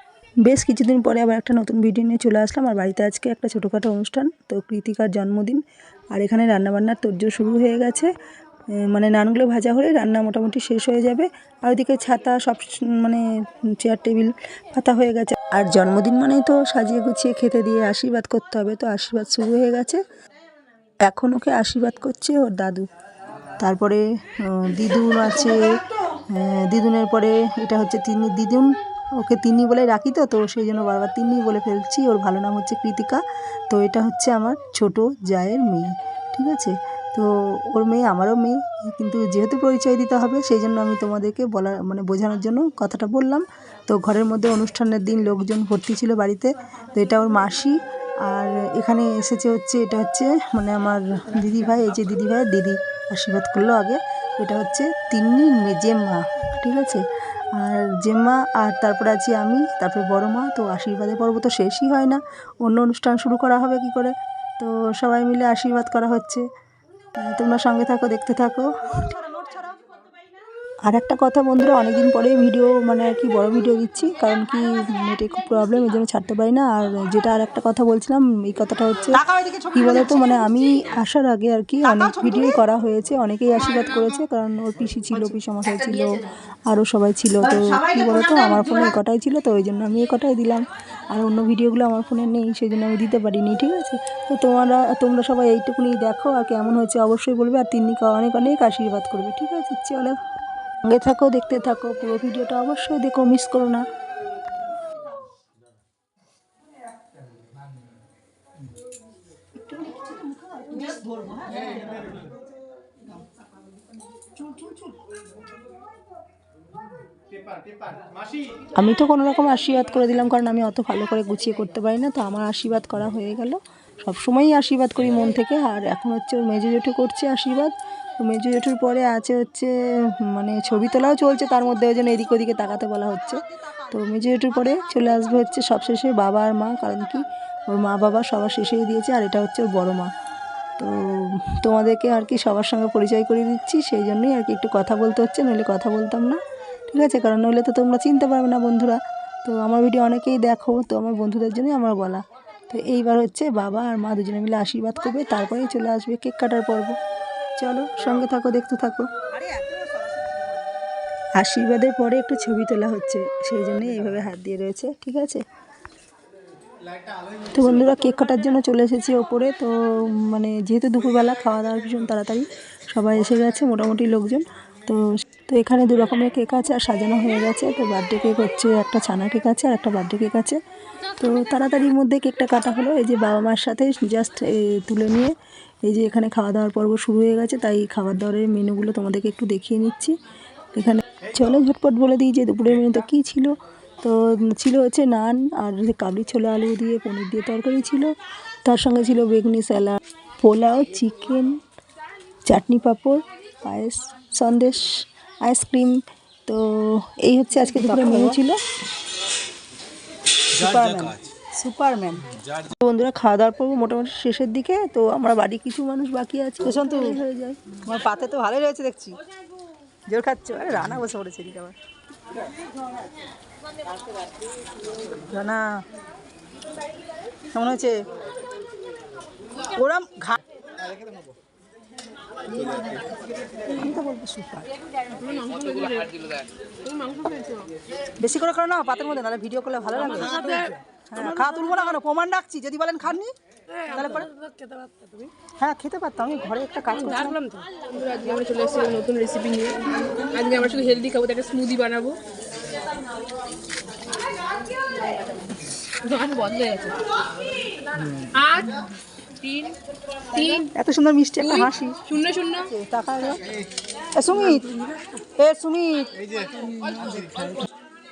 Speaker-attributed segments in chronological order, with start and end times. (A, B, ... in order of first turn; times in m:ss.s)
0:00.4-0:05.6 A
0:06.1-0:08.1 A
0:08.7-0:20.0 A
0:21.0-0:22.8 A
0:23.6-0:57.0 A
0:57.6-1:06.4 A
1:07.2-1:08.7 A
1:09.0-1:09.8 B
1:10.8-1:40.2 A
1:19.2-1:20.0 B
1:21.9-1:22.4 B
1:40.8-1:43.8 A
1:49.7-1:50.8 A
1:50.6-1:52.0 B
1:54.4-1:54.7 B
1:58.7-2:20.1 A
2:20.8-2:37.0 A
2:37.6-2:39.1 A
2:39.3-2:40.3 B
2:41.4-2:45.4 A
2:47.5-3:00.6 A
3:01.2-3:10.1 A
3:10.7-3:18.1 A
3:18.6-3:21.6 A
3:22.4-3:28.6 A
3:27.7-3:28.3 B
3:30.5-3:32.3 B
3:31.7-3:37.6 A
3:37.8-3:39.2 B
3:40.1-3:41.7 B
3:45.3-3:45.7 B
3:47.5-3:47.9 B
3:49.7-3:50.4 B
3:52.6-3:53.0 B
3:53.7-3:54.6 B
3:54.2-3:54.5 A
3:55.1-3:57.7 C
3:58.2-4:03.3 B
4:00.1-4:00.6 C
4:03.8-4:05.3 C
4:03.9-4:04.3 B
4:05.6-4:07.4 B
4:06.9-4:12.2 C
4:15.9-4:17.0 C
4:18.3-4:18.8 C
4:19.4-4:19.8 C
4:20.3-4:20.7 C
4:20.7-4:22.0 B
4:21.4-4:22.7 C
4:22.7-4:23.4 A
4:24.1-4:27.6 B